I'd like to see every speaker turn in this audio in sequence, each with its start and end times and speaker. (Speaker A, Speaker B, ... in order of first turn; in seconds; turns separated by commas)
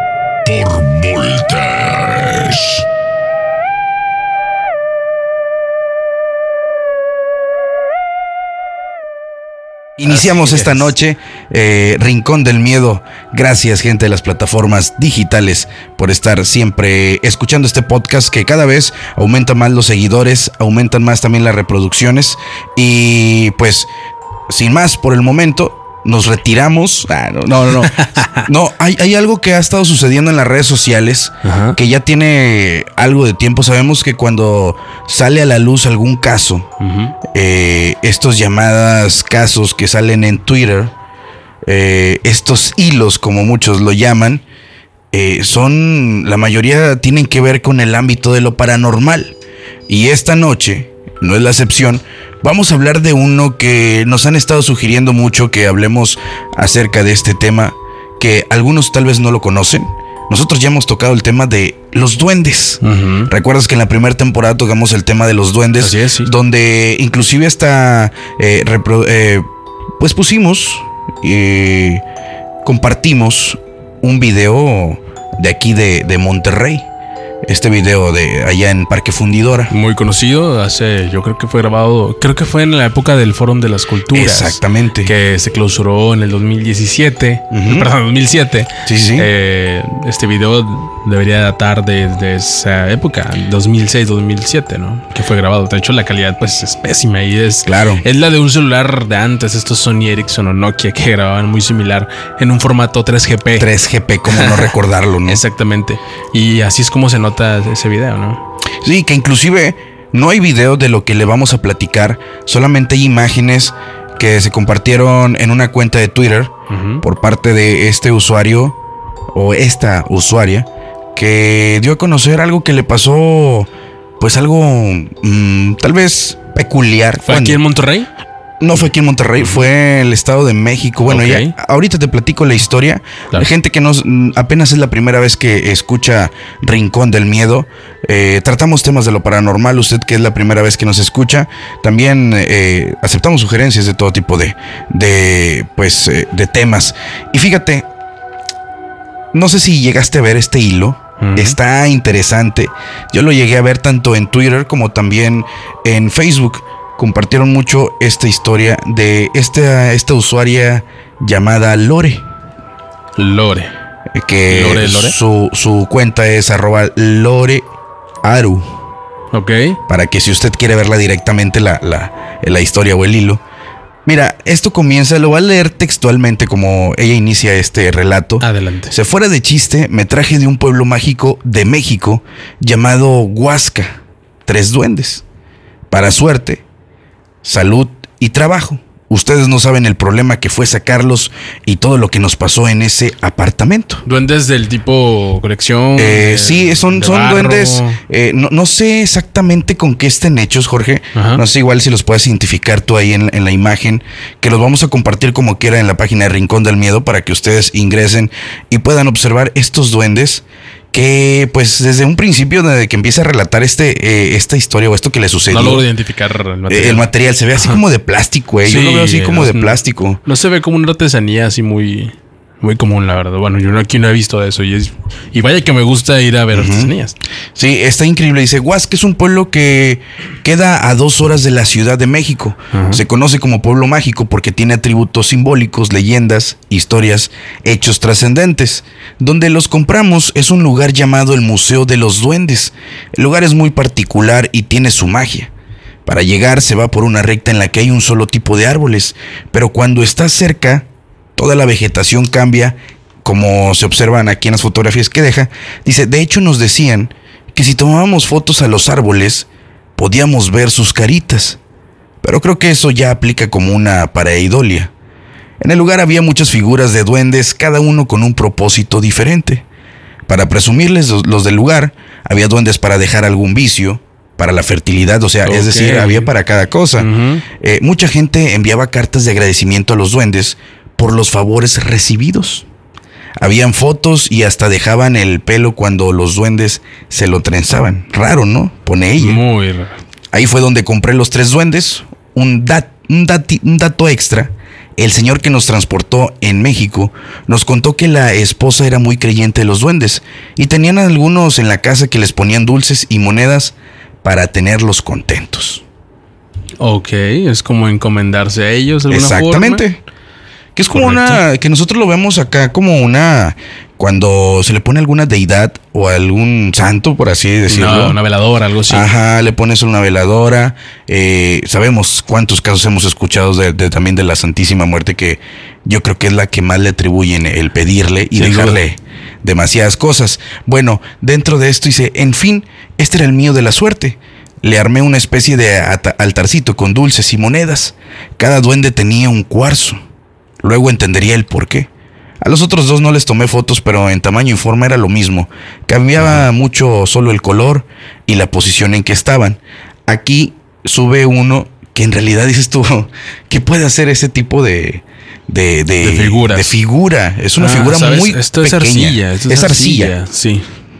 Speaker A: 0.4-2.9, Speaker B: 10.0-23.9, Speaker C: 10.0-10.9, Speaker B: 24.5-36.7, Speaker C: 27.8-28.5, Speaker C: 31.4-31.8, Speaker C: 36.8-37.1, Speaker B: 37.2-40.9, Speaker B: 41.6-44.4, Speaker B: 45.1-49.4, Speaker B: 49.9-69.5, Speaker C: 62.8-63.3, Speaker C: 65.8-66.3, Speaker B: 70.0-72.0, Speaker B: 72.6-76.9, Speaker B: 77.4-79.7, Speaker C: 79.7-103.7, Speaker B: 84.1-85.1, Speaker B: 87.5-87.9, Speaker B: 88.8-89.3, Speaker B: 97.7-98.0, Speaker B: 103.6-105.4, Speaker C: 104.3-104.7, Speaker C: 105.2-108.4, Speaker B: 108.8-118.8, Speaker C: 116.7-117.0, Speaker B: 119.3-127.6, Speaker C: 127.2-128.1, Speaker B: 128.6-147.9, Speaker C: 131.1-131.5, Speaker B: 149.3-162.2, Speaker C: 151.2-151.6, Speaker C: 163.2-163.7, Speaker B: 164.1-167.7, Speaker C: 164.5-165.2, Speaker B: 168.2-168.7, Speaker C: 169.3-169.8, Speaker B: 169.9-173.4, Speaker B: 174.0-185.2, Speaker C: 178.4-178.9, Speaker B: 185.9-186.6, Speaker B: 187.4-194.0, Speaker C: 194.0-198.0, Speaker B: 195.9-215.8, Speaker C: 201.1-201.4, Speaker C: 215.5-217.8, Speaker B: 216.7-220.2, Speaker C: 218.6-227.2, Speaker B: 226.5-226.9, Speaker B: 227.5-245.5, Speaker C: 232.7-233.0, Speaker B: 246.0-261.6, Speaker B: 262.2-264.9, Speaker B: 265.6-269.6, Speaker B: 270.3-282.6, Speaker C: 275.4-276.3, Speaker C: 277.0-277.4, Speaker B: 283.4-289.4, Speaker C: 289.2-289.9, Speaker B: 290.3-305.8, Speaker C: 306.8-309.9, Speaker B: 309.1-310.0, Speaker B: 310.8-318.2, Speaker C: 310.9-311.4, Speaker C: 317.7-319.1, Speaker B: 318.9-340.0, Speaker C: 328.3-328.8, Speaker B: 340.6-341.9, Speaker B: 342.4-360.1, Speaker C: 356.0-356.8, Speaker C: 357.6-360.7